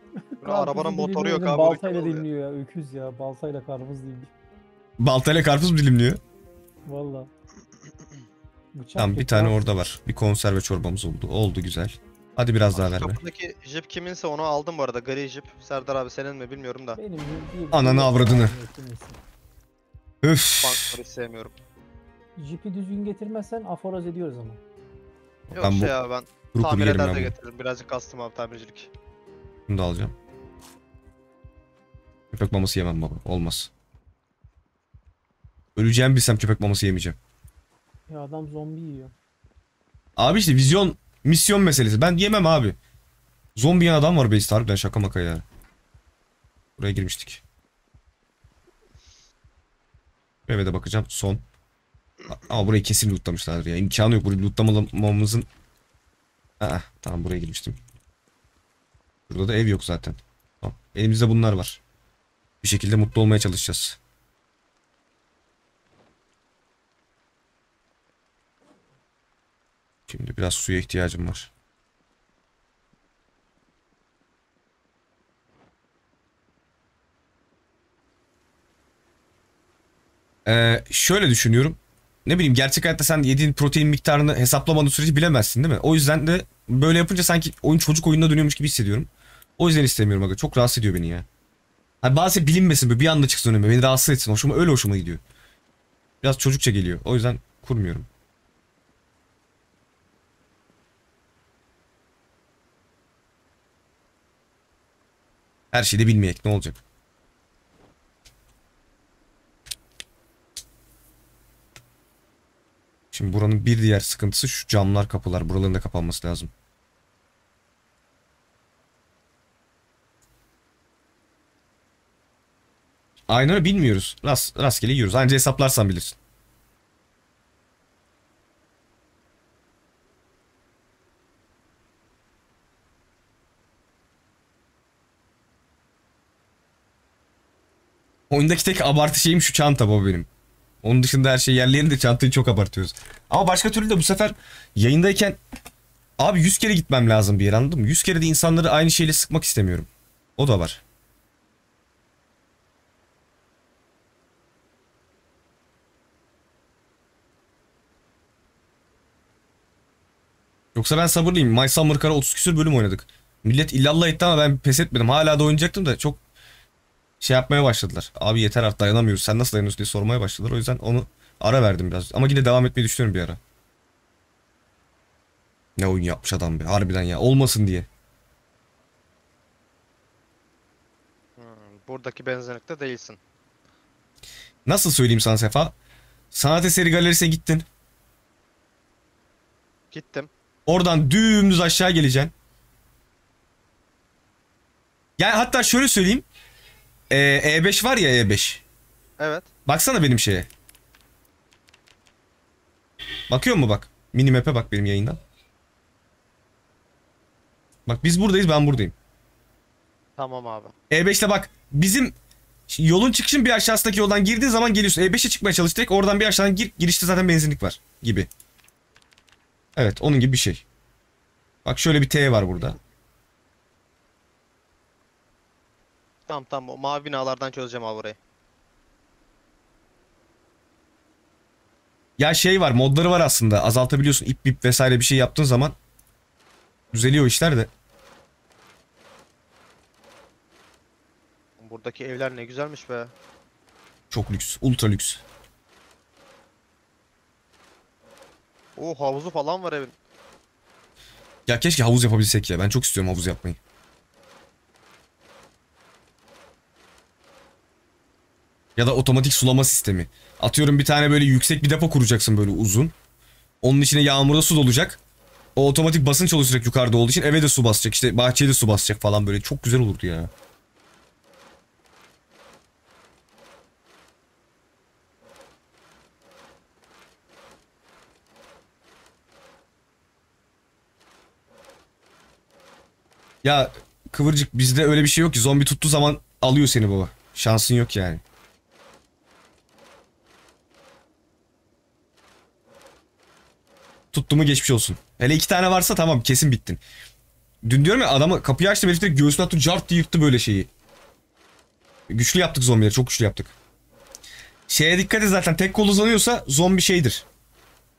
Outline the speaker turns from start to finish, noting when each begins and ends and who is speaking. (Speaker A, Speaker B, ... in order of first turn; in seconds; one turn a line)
Speaker A: 0.2-4.3
Speaker B: 0.4-2.2
Speaker C: 5.0-6.2
Speaker A: 6.8-7.3
Speaker A: 8.7-9.7
Speaker C: 9.0-13.2
Speaker B: 12.7-17.0
Speaker A: 16.9-19.2
Speaker C: 17.7-18.6
Speaker C: 20.2-20.9
Speaker B: 20.6-21.5
Speaker A: 22.4-24.6
Speaker C: 25.5-25.9
Speaker B: 25.5-28.9
Speaker C: 26.5-27.3
Speaker C: 29.7-30.1
Speaker C: 32.3-33.7
Speaker C: 35.7-37.2
Speaker A: 38.1-39.1
Speaker C: 40.1-42.8
Speaker C: 43.5-45.4
Speaker C: 46.8-47.4
Speaker C: 50.5-51.4
Speaker C: 52.3-55.5
Speaker C: 56.6-57.8
Speaker C: 59.3-61.8
Speaker C: 62.6-64.0
Speaker C: 70.1-71.5
Speaker C: 80.5-91.2
Speaker C: 92.0-95.2
Speaker C: 96.2-98.1
Speaker C: 105.7-106.8
Speaker C: 113.1-116.5
Speaker C: 123.3-126.2
Speaker C: 138.3-140.3
Speaker C: 140.8-145.4
Speaker C: 146.2-150.8
Speaker C: 160.7-166.2
Speaker C: 167.2-173.4
Speaker C: 175.8-177.9
Speaker B: 181.4-183.2
Speaker C: 184.6-185.7
Speaker C: 186.3-187.7
Speaker B: 189.9-190.3
Speaker C: 190.7-192.3
Speaker C: 195.2-196.2
Speaker C: 197.1-198.6
Speaker B: 199.2-199.5
Speaker C: 199.7-200.5
Speaker C: 203.3-205.2
Speaker C: 207.8-208.9
Speaker B: 210.2-210.7
Speaker C: 210.9-212.1
Speaker C: 212.7-218.3
Speaker C: 219.8-220.6
Speaker C: 221.6-222.8
Speaker B: 226.3-228.2
Speaker C: 232.2-235.8
Speaker C: 236.9-237.7
Speaker B: 241.6-243.1
Speaker C: 244.1-245.2
Speaker B: 248.8-249.9
Speaker C: 251.4-253.6
Speaker C: 258.8-262.9
Speaker C: 263.6-265.0
Speaker C: 265.6-270.3
Speaker C: 283.4-288.2
Speaker C: 294.1-296.8
Speaker C: 297.6-300.7
Speaker C: 302.1-303.5
Speaker C: 304.7-307.2